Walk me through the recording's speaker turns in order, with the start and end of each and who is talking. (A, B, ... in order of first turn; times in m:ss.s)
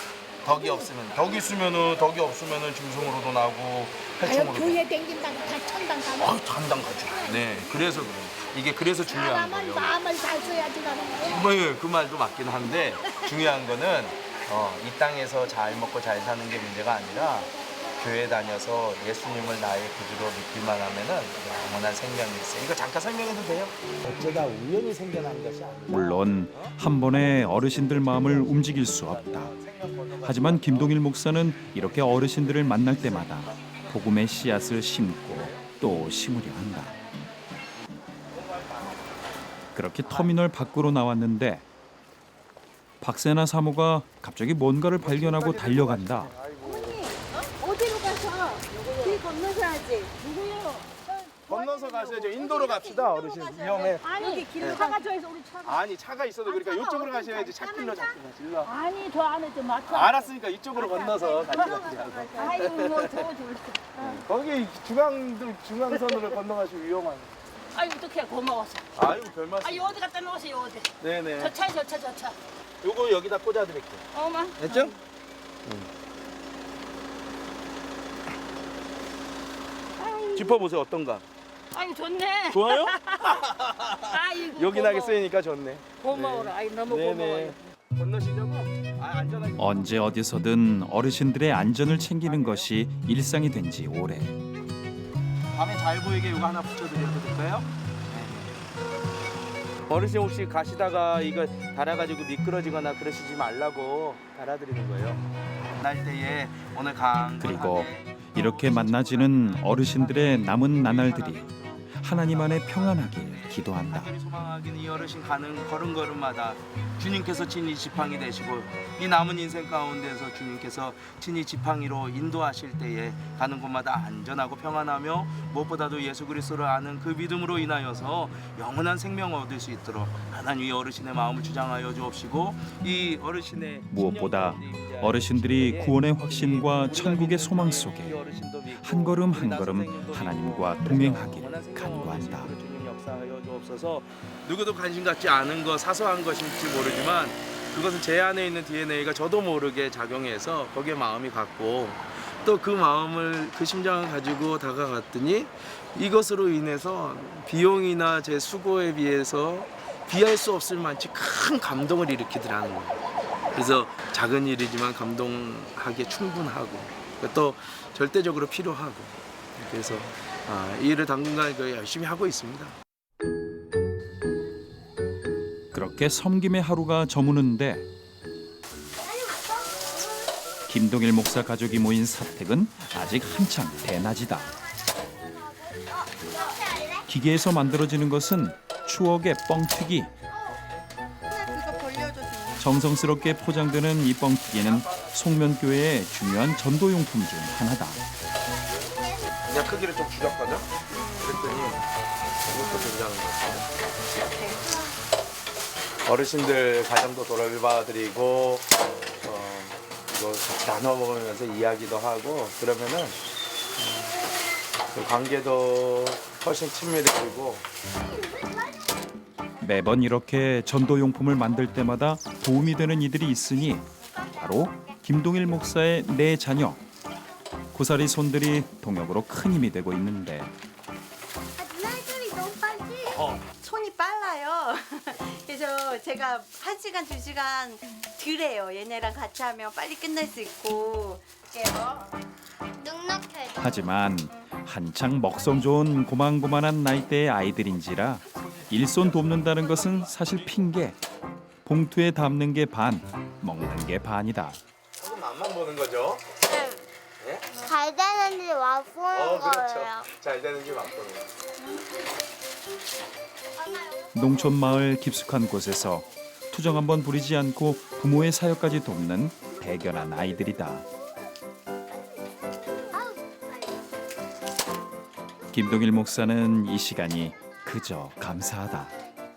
0:00.4-0:04.8 A
0:00.5-0:00.8 B
0:04.2-0:06.4 B
0:06.2-0:10.0 A
0:09.1-0:11.4 B
0:11.2-0:31.0 A
0:25.9-0:29.5 C
0:30.2-0:37.0 C
0:38.3-0:39.2 A
0:39.7-0:41.6 C
0:40.0-0:40.3 A
0:43.0-0:46.3 C
0:45.0-0:47.0 A
0:46.6-0:50.1 D
0:48.8-0:49.1 A
0:50.2-0:51.3 E
0:51.5-0:54.0 A
0:51.8-0:54.9 D
0:54.0-0:55.8 E
0:55.6-0:58.7 A
0:58.6-1:00.3 E
0:59.9-1:03.2 A
1:01.2-1:02.3 D
1:02.4-1:04.2 E
1:04.0-1:07.3 A
1:07.7-1:08.9 E
1:09.0-1:10.0 A
1:09.6-1:12.4 E
1:11.0-1:11.5 A
1:12.8-1:14.0 A
1:14.1-1:15.0 E
1:14.6-1:14.9 A
1:15.6-1:15.9 A
1:20.0-1:20.6 E
1:20.3-1:21.2 A
1:21.7-1:25.2 E
1:22.5-1:30.0 A
1:26.0-1:27.6 E
1:29.6-1:34.4 C
1:32.2-1:32.7 A
1:35.5-1:38.6 A
1:39.9-2:43.0 A
1:47.4-1:54.1 C
2:13.9-2:18.2 C
2:18.8-2:22.5 C
2:43.5-2:52.8 A
2:55.7-2:57.9 C
3:00.7-3:04.6 C
3:06.5-3:06.9 F
3:07.1-3:10.1 C
3:11.3-3:12.7 D
3:12.6-3:18.0 C
3:14.6-3:15.1 A
3:19.5-3:21.8 A
3:20.9-3:21.4 D
3:22.4-3:23.7 A
3:22.6-3:22.9 D
3:24.2-3:24.9 D
3:26.0-3:33.2 A
3:33.8-3:34.2 A
3:34.9-3:37.7 A
3:39.6-3:46.8 C
3:47.7-3:50.5 C
3:51.6-3:53.2 F
3:53.1-4:02.1 D
3:53.1-3:53.4 A
4:02.8-4:03.9 F
4:03.6-4:11.0 C
4:08.8-4:10.0 A
4:11.6-4:14.6 C
4:15.0-4:16.4 A
4:16.5-4:16.8 F
4:17.2-4:17.4 A
4:17.5-4:20.1 F
4:19.1-4:21.4 A
4:24.1-4:30.8 C
4:32.9-4:33.6 F
4:35.5-4:38.9 C